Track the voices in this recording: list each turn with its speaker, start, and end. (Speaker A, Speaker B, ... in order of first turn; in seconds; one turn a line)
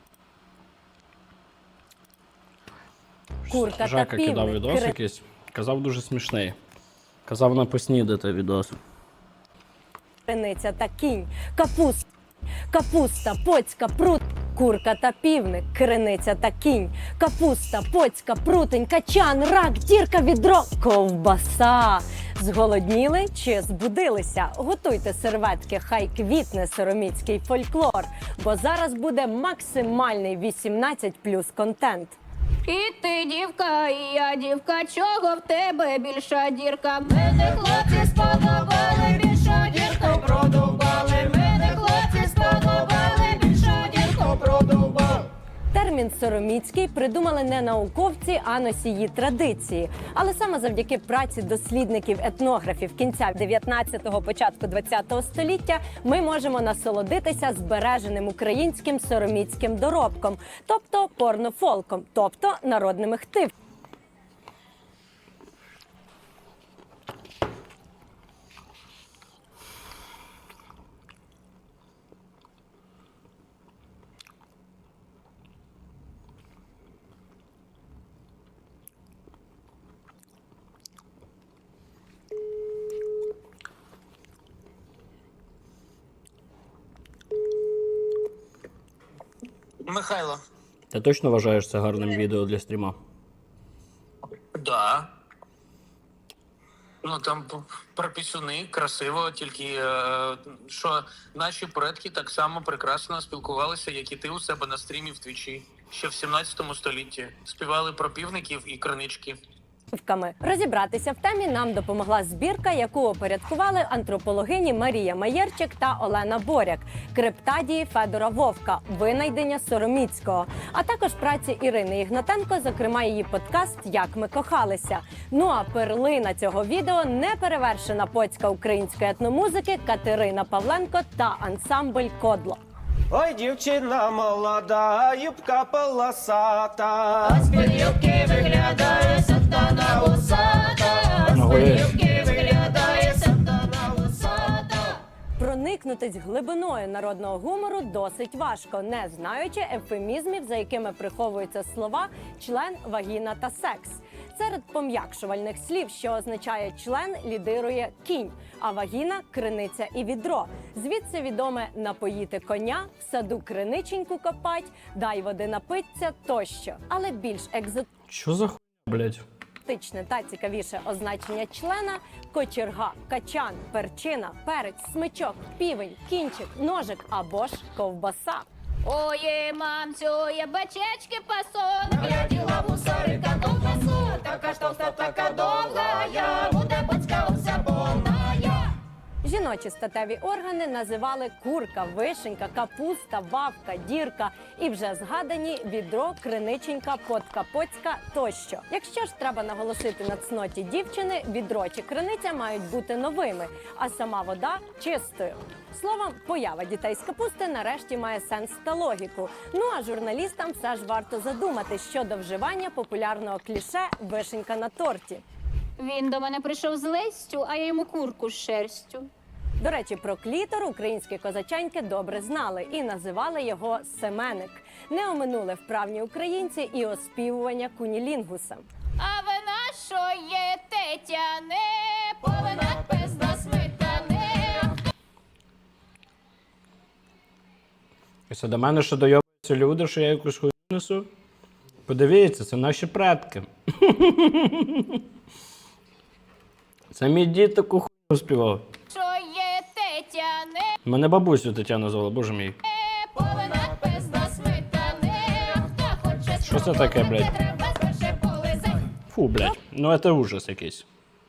Speaker A: 3.5-6.5
Speaker B: 3.5-5.0
Speaker A: 7.3-8.8
Speaker B: 10.2-12.0
Speaker B: 12.7-32.2
Speaker C: 32.7-45.3
Speaker B: 45.7-63.5
Speaker D: 89.8-90.4
Speaker A: 90.9-93.0
Speaker D: 94.5-95.1
Speaker D: 97.0-109.4
Speaker B: 109.9-132.6
Speaker E: 133.1-137.2
Speaker C: 137.2-145.0
Speaker A: 141.3-141.9
Speaker B: 145.4-167.9
Speaker A: 168.1-169.2
Speaker B: 169.7-178.5
Speaker C: 178.8-188.7
Speaker B: 189.2-215.2
Speaker C: 215.8-219.1
Speaker B: 219.6-228.7
Speaker C: 229.0-234.8
Speaker A: 238.3-241.1
Speaker A: 241.9-245.0
Speaker A: 246.9-248.7
Speaker C: 248.9-250.8
Speaker A: 250.8-252.6
Speaker C: 252.6-258.9
Speaker A: 256.4-257.3
Speaker A: 259.1-260.8